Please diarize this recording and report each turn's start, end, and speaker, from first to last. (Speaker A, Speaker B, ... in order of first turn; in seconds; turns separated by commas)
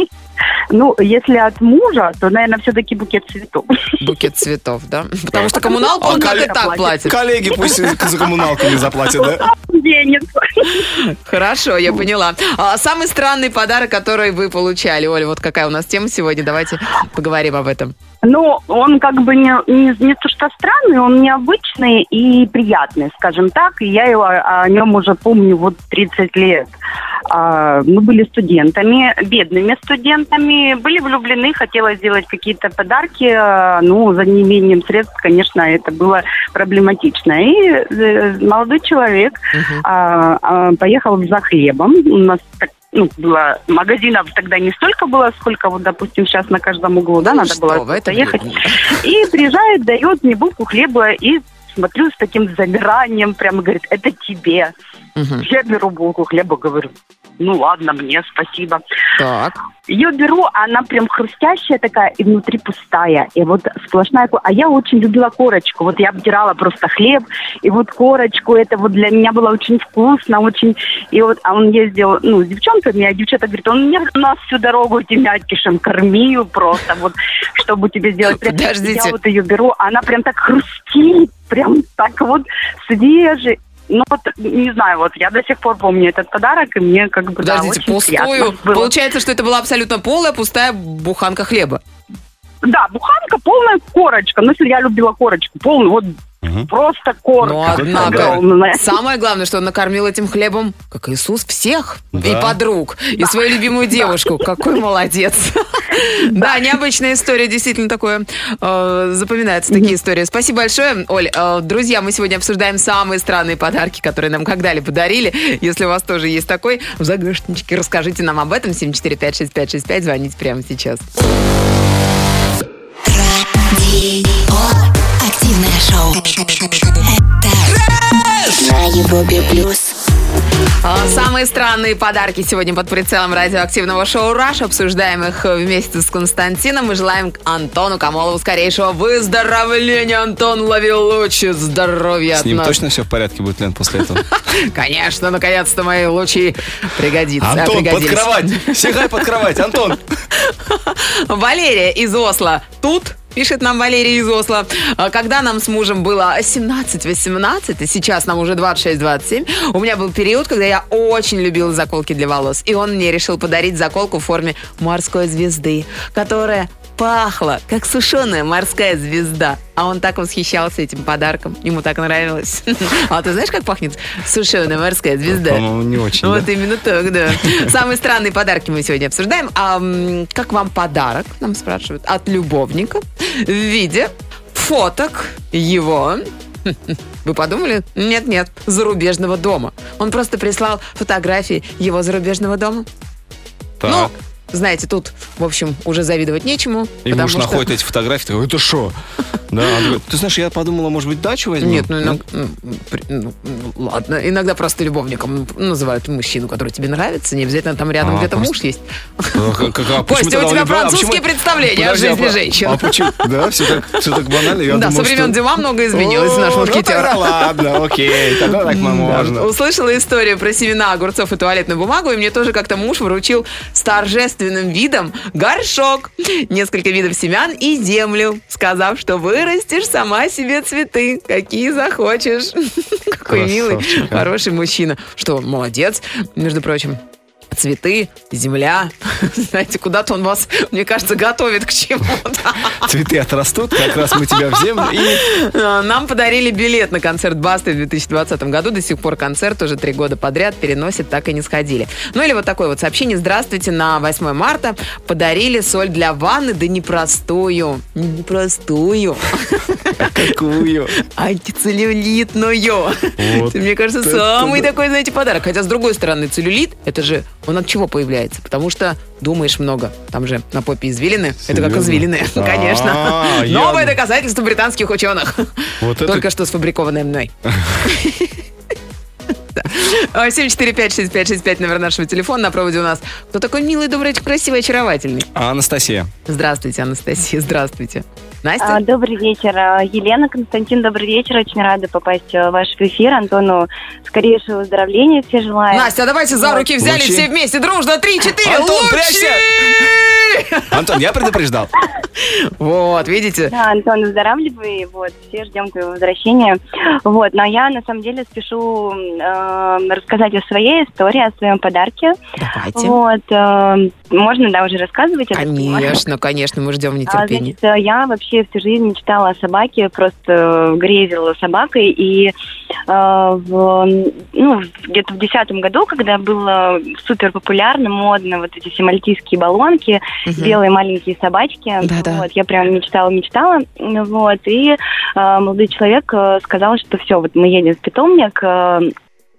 Speaker A: 0.7-3.7, Speaker B: 4.0-7.2, Speaker C: 5.3-9.4, Speaker A: 5.6-6.8, Speaker A: 9.1-10.8, Speaker B: 10.9-17.9, Speaker A: 18.2-26.7, Speaker A: 27.3-54.7, Speaker B: 39.5-39.9, Speaker B: 47.2-48.9, Speaker B: 55.2-55.5, Speaker A: 55.4-58.8, Speaker B: 59.2-59.6, Speaker A: 59.9-88.9, Speaker B: 78.3-79.2, Speaker B: 87.4-91.8, Speaker A: 92.7-98.9, Speaker B: 97.4-121.1, Speaker C: 97.6-98.4, Speaker C: 102.1-102.6, Speaker D: 123.0-127.8, Speaker D: 128.5-130.0, Speaker B: 130.8-142.8, Speaker C: 142.3-144.2, Speaker B: 144.5-149.2, Speaker C: 147.4-150.0, Speaker B: 150.3-175.6, Speaker C: 175.3-176.5, Speaker B: 176.2-192.9, Speaker C: 177.3-177.7, Speaker C: 193.8-194.1, Speaker B: 193.8-197.7, Speaker C: 197.1-199.0, Speaker C: 199.5-202.2, Speaker B: 201.6-214.0, Speaker C: 208.0-208.5, Speaker C: 209.3-219.5, Speaker B: 214.6-217.8, Speaker B: 218.4-237.0, Speaker C: 233.3-234.3, Speaker B: 237.5-242.8, Speaker C: 242.8-245.3, Speaker B: 244.0-260.3, Speaker C: 260.0-260.9, Speaker B: 261.0-278.4, Speaker C: 263.2-264.7, Speaker C: 271.4-274.0, Speaker C: 275.8-276.2, Speaker C: 277.5-277.7, Speaker B: 279.6-285.3, Speaker C: 285.3-286.1, Speaker B: 286.3-288.8, Speaker E: 288.6-296.6, Speaker B: 295.7-300.7, Speaker C: 296.8-297.3, Speaker C: 298.4-299.5, Speaker C: 300.7-301.7, Speaker B: 302.2-303.5, Speaker E: 303.5-312.2, Speaker B: 312.4-313.0, Speaker E: 312.7-316.1, Speaker B: 315.3-317.6, Speaker E: 317.1-322.3, Speaker E: 322.9-338.9, Speaker B: 330.2-330.6, Speaker B: 331.8-332.2